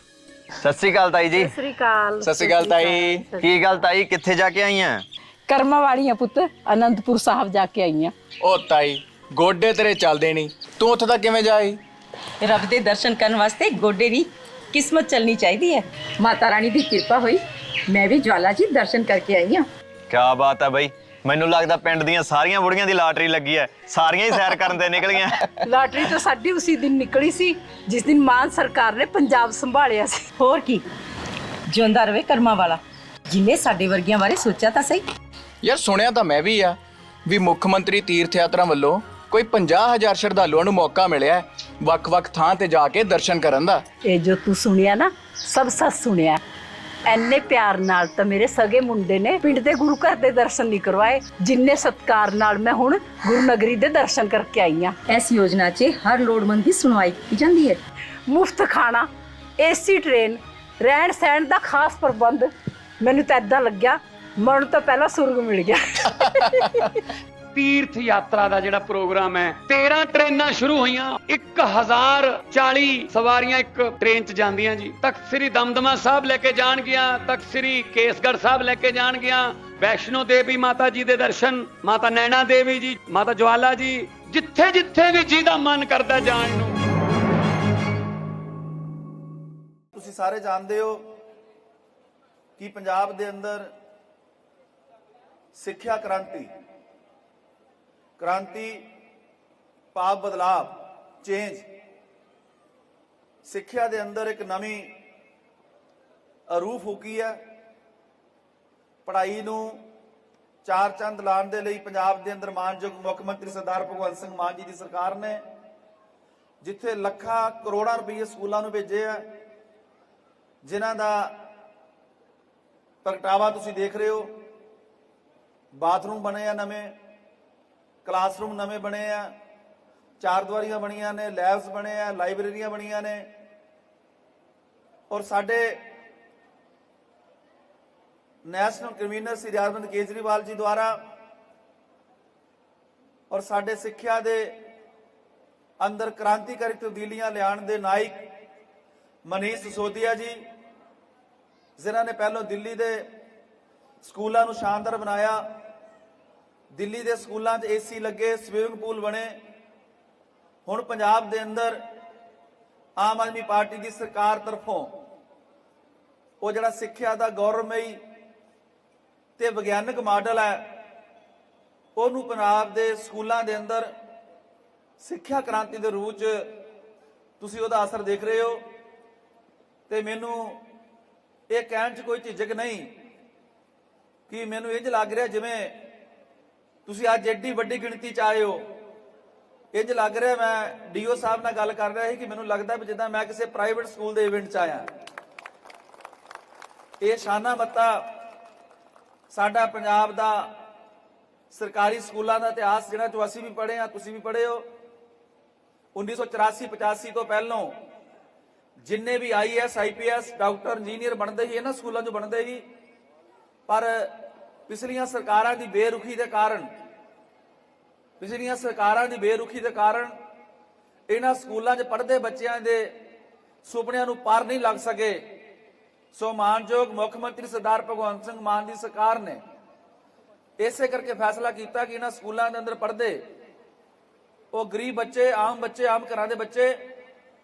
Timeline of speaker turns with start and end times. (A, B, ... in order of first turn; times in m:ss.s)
0:00.6-0:01.5 A
0:01.3-0:03.5 B
0:02.2-0:03.3 C
0:03.4-0:05.0 A
0:05.5-0:08.1 B
0:08.4-0:11.8 C
0:12.4-0:19.7 D
0:20.1-0:25.4 A
0:25.6-0:30.3 B
0:30.4-0:30.8 D
0:31.7-0:35.0 D
0:35.6-0:43.8 C
0:44.0-0:46.4 B
0:47.1-0:54.9 B
0:55.1-0:57.8 D
0:58.3-0:59.1 B
0:59.6-1:07.0 B
1:07.5-1:26.8 E
1:29.9-1:31.0 F
1:32.6-1:33.7 F
1:35.5-1:36.5 F
1:38.2-1:38.9 F
1:39.9-1:41.6 F
1:43.4-1:44.9 F
1:46.5-1:47.4 F
1:49.0-1:49.8 F
1:50.6-1:55.4 F
1:56.6-1:59.2 F
2:00.6-2:01.4 F
2:03.0-2:04.3 F
2:05.7-2:07.0 F
2:08.0-2:09.3 F
2:10.2-2:13.3 F
2:15.1-2:15.8 F
2:18.4-2:21.0 F
2:23.3-2:24.5 F
2:25.8-2:28.2 F
2:29.3-2:30.4 F
2:31.8-2:33.0 F
2:34.0-2:35.4 F
2:36.7-2:39.4 F
2:40.6-2:41.8 F
2:43.0-2:44.9 F
2:46.4-2:48.0 F
2:49.4-2:50.7 F
2:52.0-2:53.9 F
2:55.0-2:56.5 F
2:57.4-2:58.6 F
2:59.9-3:00.6 F
3:01.5-3:02.9 F
3:04.3-3:05.8 F
3:06.8-3:08.6 F
3:09.7-3:14.9 F
3:17.0-3:18.0 F
3:19.3-3:20.5 F
3:21.5-3:24.6 F
3:26.0-3:27.7 F
3:28.8-3:32.6 F
3:33.7-3:34.1 F
3:34.7-3:36.7 F
3:38.2-3:40.1 F
3:41.1-3:42.9 F
3:43.6-3:45.2 F
3:46.1-3:49.4 F
3:50.6-3:53.2 F
3:54.5-3:56.8 F